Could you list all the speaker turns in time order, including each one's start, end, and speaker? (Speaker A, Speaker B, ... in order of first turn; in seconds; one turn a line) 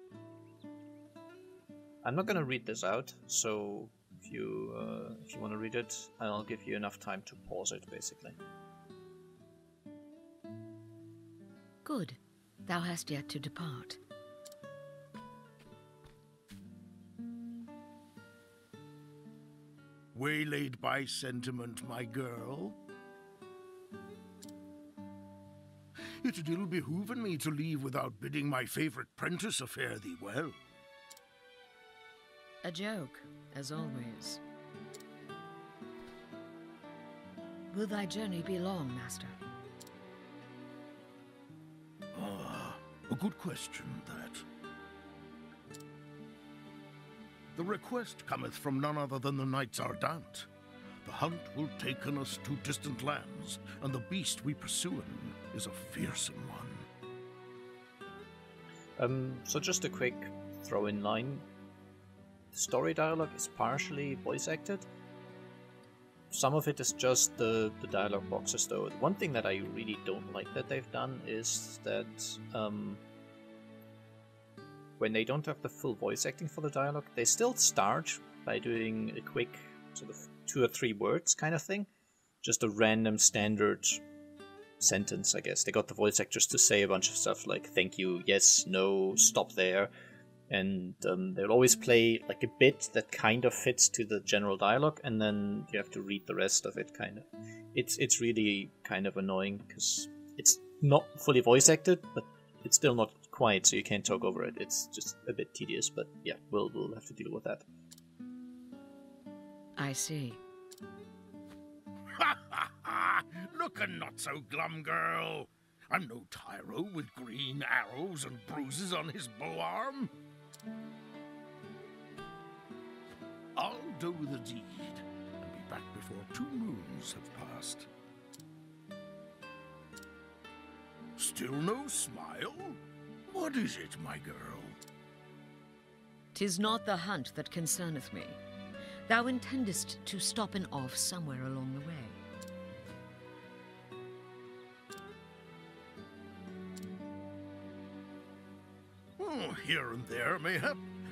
Speaker A: 2.0-8.4
Speaker B: 11.8-14.0
Speaker C: 20.1-22.8
Speaker C: 26.2-30.6
Speaker B: 32.6-34.4
Speaker B: 37.7-39.4
Speaker C: 42.1-44.4
Speaker C: 47.5-50.5
Speaker C: 51.0-56.9
Speaker A: 59.0-61.4
Speaker A: 62.5-64.8
Speaker A: 66.3-73.0
Speaker A: 75.0-81.9
Speaker A: 82.4-84.0
Speaker A: 84.8-89.9
Speaker A: 90.5-107.6
Speaker B: 109.8-110.4
Speaker C: 112.2-120.1
Speaker C: 123.5-127.9
Speaker C: 131.2-134.8
Speaker B: 136.3-138.4
Speaker B: 139.1-142.2
Speaker C: 149.2-150.8